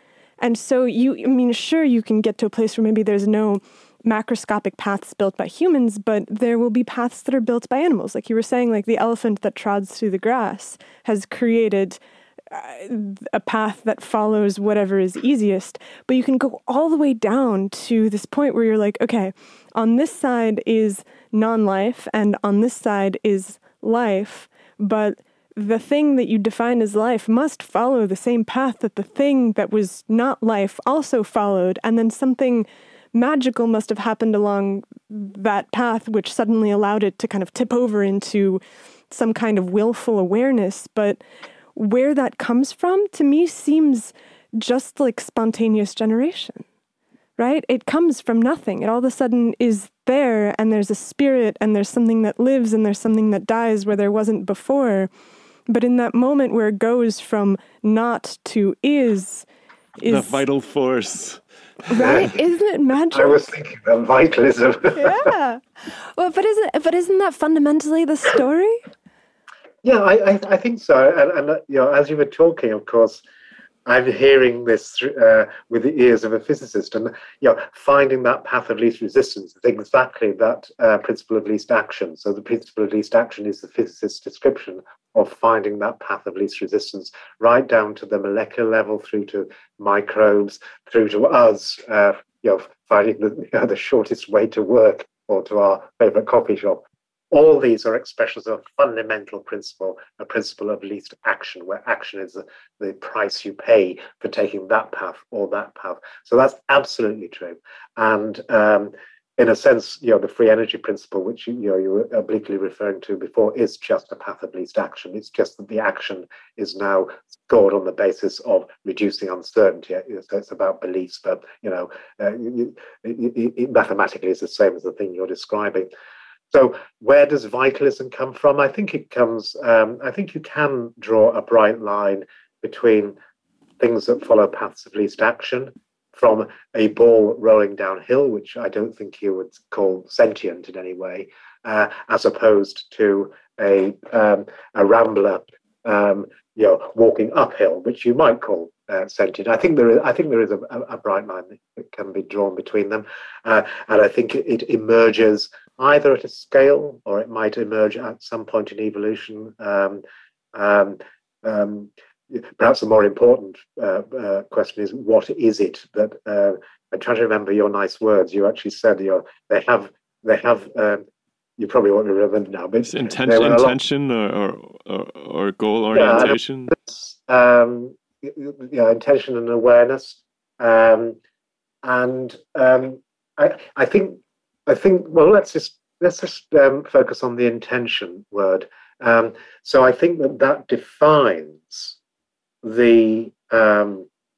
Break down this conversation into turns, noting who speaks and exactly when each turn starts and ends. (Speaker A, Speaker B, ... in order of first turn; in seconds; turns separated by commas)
Speaker A: 0.4-41.2, Speaker A: 41.7-46.6, Speaker A: 47.4-55.1, Speaker A: 55.7-59.5, Speaker A: 60.0-60.4, Speaker B: 60.0-61.4, Speaker A: 61.9-63.4, Speaker C: 62.0-62.3, Speaker C: 63.1-65.3, Speaker A: 64.9-68.8, Speaker C: 69.8-73.2, Speaker C: 73.8-125.9, Speaker C: 126.5-133.2, Speaker C: 133.8-160.0, Speaker C: 160.5-171.0, Speaker C: 171.6-173.8, Speaker B: 172.8-176.7, Speaker C: 175.9-181.2, Speaker C: 181.8-192.0, Speaker C: 192.6-194.1